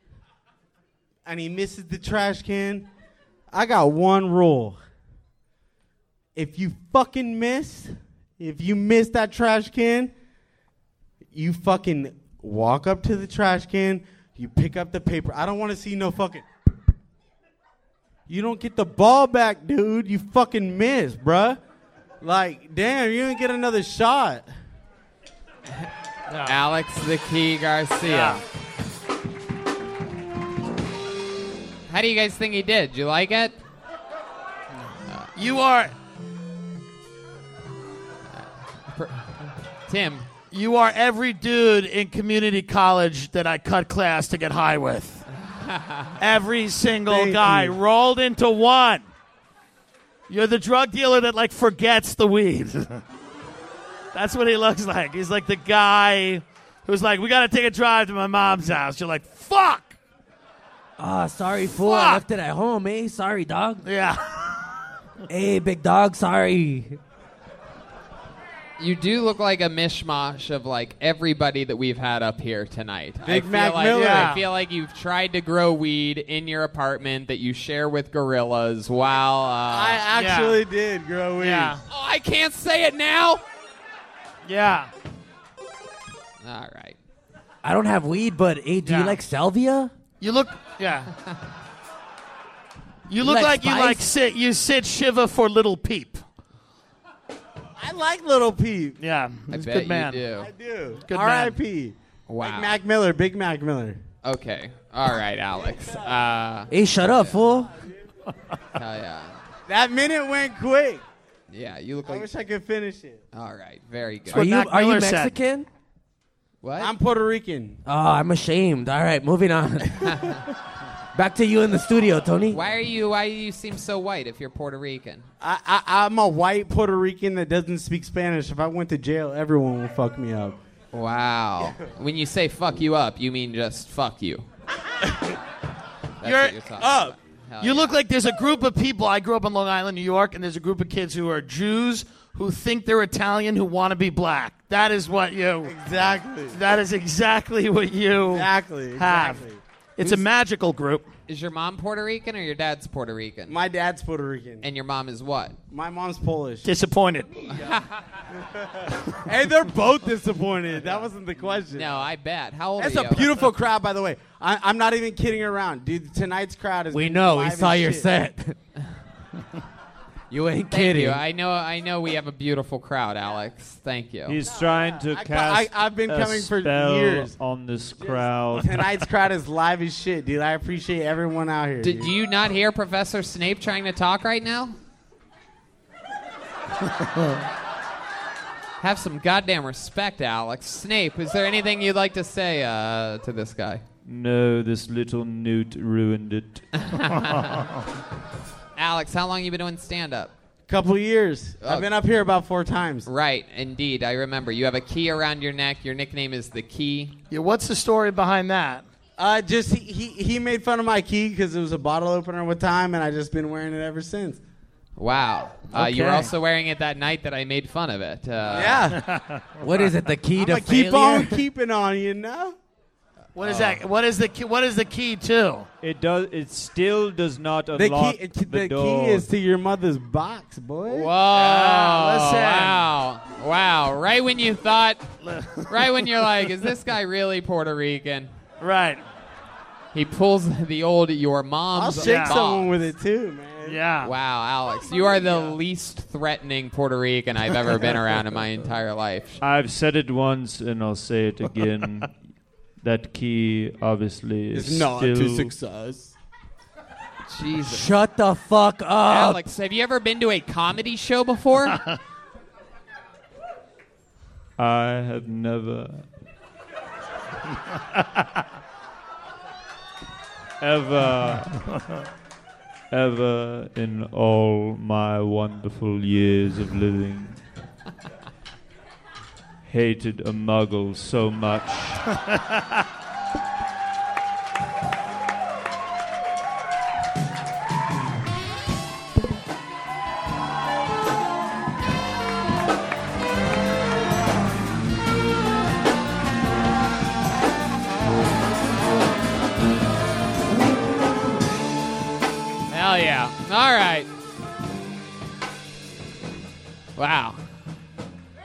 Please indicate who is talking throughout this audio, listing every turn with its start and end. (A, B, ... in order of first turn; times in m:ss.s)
0:01.3-0:02.9 A
0:03.5-0:04.8 A
0:06.4-0:10.1 A
0:11.3-0:16.4 A
0:18.3-0:21.6 A
0:22.2-0:24.5 A
0:26.3-0:26.6 B
0:26.4-0:28.4 C
0:28.0-0:28.4 B
0:31.9-0:33.6 C
0:35.4-0:35.9 B
0:38.4-0:39.3 C
0:39.9-0:40.3 C
0:40.5-0:45.2 B
0:45.5-0:46.2 C
0:46.2-0:49.1 B
0:47.1-0:47.8 A
0:50.3-0:53.0 B
0:54.1-1:00.0 B
1:01.0-1:03.9 D
1:01.6-1:02.2 B
1:03.8-1:04.2 B
1:05.3-1:07.0 D
1:08.8-1:20.0 C
1:13.2-1:14.4 A
1:13.9-1:14.4 B
1:19.7-1:21.8 A
1:20.2-1:20.6 B
1:21.4-1:21.8 B
1:21.9-1:23.4 C
1:24.4-1:24.9 B
1:26.4-1:27.0 C
1:27.6-1:29.9 D
1:28.8-1:29.2 B
1:30.2-1:31.1 B
1:33.1-1:36.2 B
1:33.2-1:34.1 D
1:37.8-1:39.0 A
1:39.0-1:40.2 B
1:39.5-1:40.5 C
1:40.4-1:44.0 A
1:41.0-1:41.6 B
1:42.3-1:42.8 C
1:44.2-1:47.4 C
1:46.7-1:47.8 D
1:48.8-1:49.4 C
1:49.7-1:51.0 A
1:51.5-1:52.3 C
1:52.1-1:53.2 A
1:53.3-1:54.5 C
1:54.3-1:55.3 B
1:54.3-1:55.7 D
1:56.6-1:56.9 C
1:56.8-1:57.8 A
1:57.8-2:00.3 D
2:00.0-2:00.4 C
2:01.1-2:02.6 D
2:02.5-2:05.3 C
2:05.4-2:10.6 A
2:10.9-2:14.4 C
2:16.2-2:18.0 C
2:16.2-2:17.2 A
2:17.6-2:25.8 B
2:25.6-2:26.6 A
2:26.5-2:29.4 B
2:28.3-2:29.6 A
2:30.0-2:31.1 B
2:31.3-2:33.6 C
2:33.5-2:34.6 A
2:34.6-2:35.6 C
2:35.7-2:36.7 A
2:36.6-2:37.3 B
2:37.5-2:37.8 C
2:39.2-2:42.0 A
2:41.7-2:43.3 C
2:42.8-2:48.1 A
2:46.9-2:48.6 D
2:50.3-2:51.2 D
2:50.7-2:54.4 C
2:54.3-2:59.1 E
2:54.4-2:57.4 A
2:58.0-3:02.1 A
3:01.8-3:04.8 C
3:08.8-3:13.8 C
3:14.1-3:16.6 E
3:16.8-3:17.6 C
3:18.8-3:20.3 C
3:20.7-3:23.1 A
3:21.6-3:21.9 C
3:23.0-3:27.2 C
3:27.3-3:28.9 B
3:29.2-3:34.4 A
3:35.0-3:38.8 C
3:38.5-3:39.0 A
3:38.9-3:39.4 B
3:39.6-3:41.4 D
3:40.4-3:42.6 A
3:43.4-3:45.7 B
3:43.4-3:43.8 C
3:45.8-3:49.3 E
3:47.8-3:51.1 A
3:50.9-3:55.1 C
3:51.3-3:52.8 B
3:55.2-3:55.9 B
3:55.7-3:58.3 C
3:58.6-3:59.0 B
3:59.9-4:02.7 C
4:01.8-4:03.8 A
4:02.0-4:02.4 B
4:03.6-4:04.1 B
4:04.0-4:09.4 C
4:09.4-4:12.1 E
4:12.8-4:15.6 E
4:14.5-4:16.1 A
4:17.3-4:17.9 C
4:17.6-4:19.4 D
4:19.1-4:21.8 C
4:24.6-4:26.1 E
4:30.6-4:31.7 E
4:32.9-4:37.4 E
4:39.6-4:42.0 E
5:02.7-5:04.1 C
5:07.0-5:07.4 C